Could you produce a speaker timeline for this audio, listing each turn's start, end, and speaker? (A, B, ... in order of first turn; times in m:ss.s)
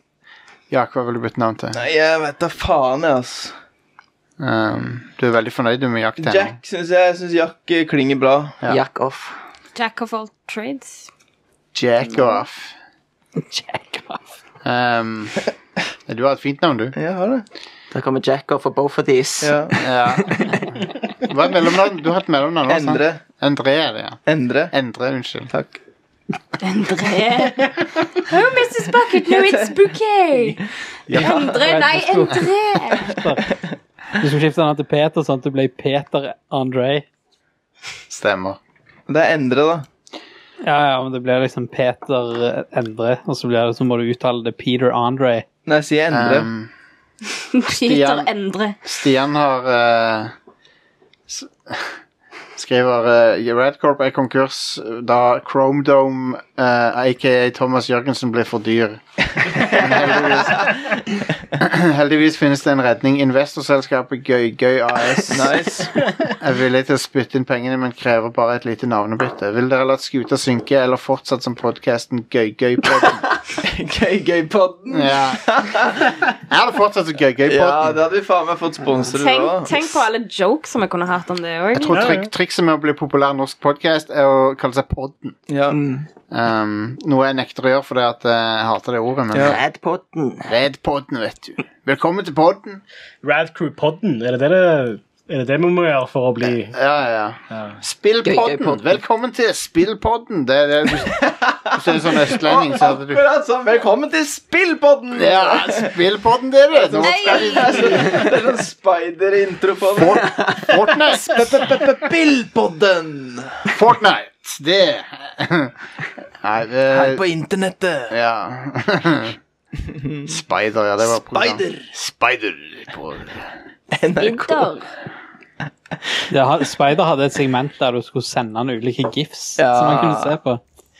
0:00.7-0:01.8 A
0:01.7-0:03.6 B
0:04.4-0:06.6 A
0:06.2-0:08.6 B
0:08.7-0:09.4 C
0:09.8-0:11.1 D
0:11.7-0:12.8 A
0:13.4-0:14.2 E
0:14.6-0:15.4 A
0:16.1-0:17.0 A
0:17.0-0:17.4 B
0:17.9-0:20.7 C
0:19.4-0:19.8 B
0:19.8-0:20.6 A
0:21.2-0:25.5 A
0:22.7-0:23.2 B
0:24.3-0:24.7 B
0:25.5-0:25.8 B
0:26.6-0:33.2 D
0:29.2-0:29.8 B
0:31.1-0:31.4 A
0:31.2-0:33.5 E
0:34.2-0:37.1 E
0:38.1-0:38.6 A
0:39.1-0:39.9 B
0:40.6-0:45.5 E
0:45.7-0:46.5 B
0:46.1-0:46.7 A
0:47.5-0:48.8 D
0:47.7-0:48.3 A
0:48.8-0:50.3 A
0:51.3-0:52.0 A
0:52.6-1:00.8 A
1:01.6-1:05.6 A
1:05.3-1:06.0 B
1:06.0-1:06.3 F
1:06.4-1:13.3 A
1:13.6-1:16.0 B
1:14.9-1:15.7 A
1:16.4-1:18.0 A
1:17.5-1:20.0 B
1:19.1-1:22.1 D
1:21.7-1:25.4 A
1:21.9-1:22.3 F
1:25.5-1:25.8 B
1:25.7-1:26.1 C
1:26.3-1:29.6 A
1:29.3-1:29.6 B
1:29.4-1:30.5 C
1:30.5-1:32.8 A
1:33.2-1:36.8 F
1:36.4-1:43.2 A
1:37.5-1:37.8 F
1:38.2-1:39.0 C
1:41.0-1:45.9 B
1:45.1-1:48.3 A
1:46.7-1:50.3 B
1:47.0-1:48.1 D
1:49.9-1:51.5 A
1:51.1-1:53.7 B
1:53.7-1:55.8 A
1:56.4-1:57.2 A
1:56.9-1:58.2 B
1:58.1-1:59.4 A
1:59.9-2:00.3 B
2:00.3-2:03.5 A
2:01.0-2:01.9 B
2:03.9-2:04.7 B
2:04.2-2:04.9 D
2:06.3-2:10.6 E
2:09.6-2:10.4 B